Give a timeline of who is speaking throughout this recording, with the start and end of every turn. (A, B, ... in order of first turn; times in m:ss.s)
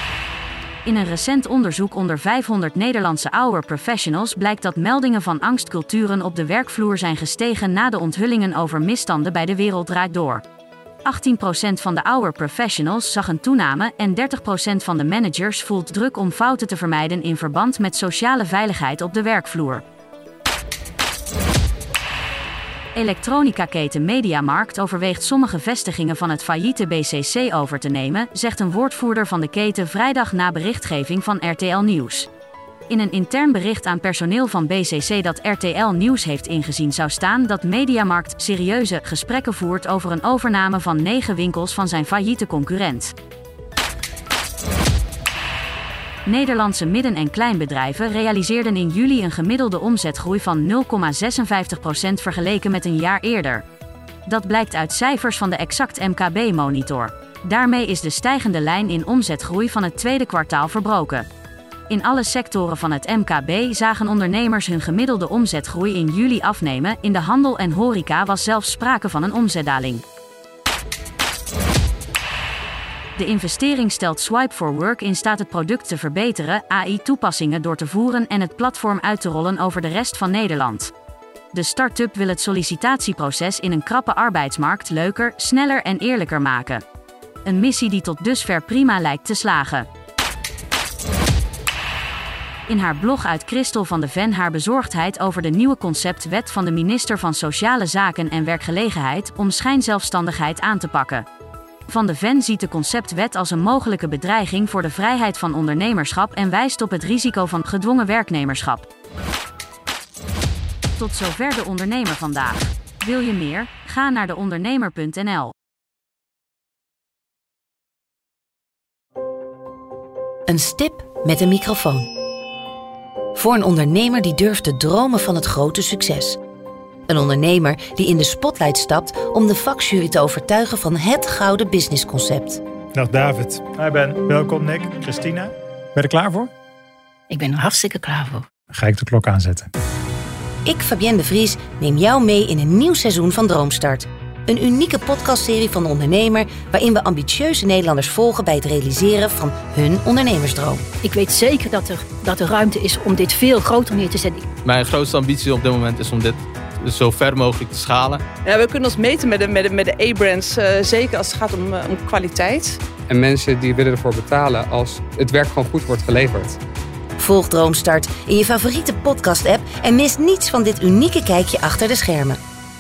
0:00.8-0:10.4 A
0:11.0-0:19.8 A
0:23.0-0:32.3 A
0:32.9-0:43.1 A
0:46.2-0:53.6 A
0:54.3-1:01.3 A
1:01.9-1:10.0 A
1:13.2-1:20.9 A
1:21.5-1:26.8 A
1:27.4-1:29.9 A
1:32.7-1:41.2 A
1:41.9-1:48.9 A
1:51.0-1:55.5 A
2:00.5-2:02.1 B
2:03.4-2:06.4 B
2:07.1-2:12.6 B
2:13.0-2:16.5 C
2:17.3-2:18.4 D
2:18.7-2:19.7 C
2:20.7-2:30.8 B
2:31.0-2:34.4 D
2:34.6-2:38.2 E
2:38.4-2:42.8 F
2:43.1-2:46.6 G
2:47.2-2:52.4 B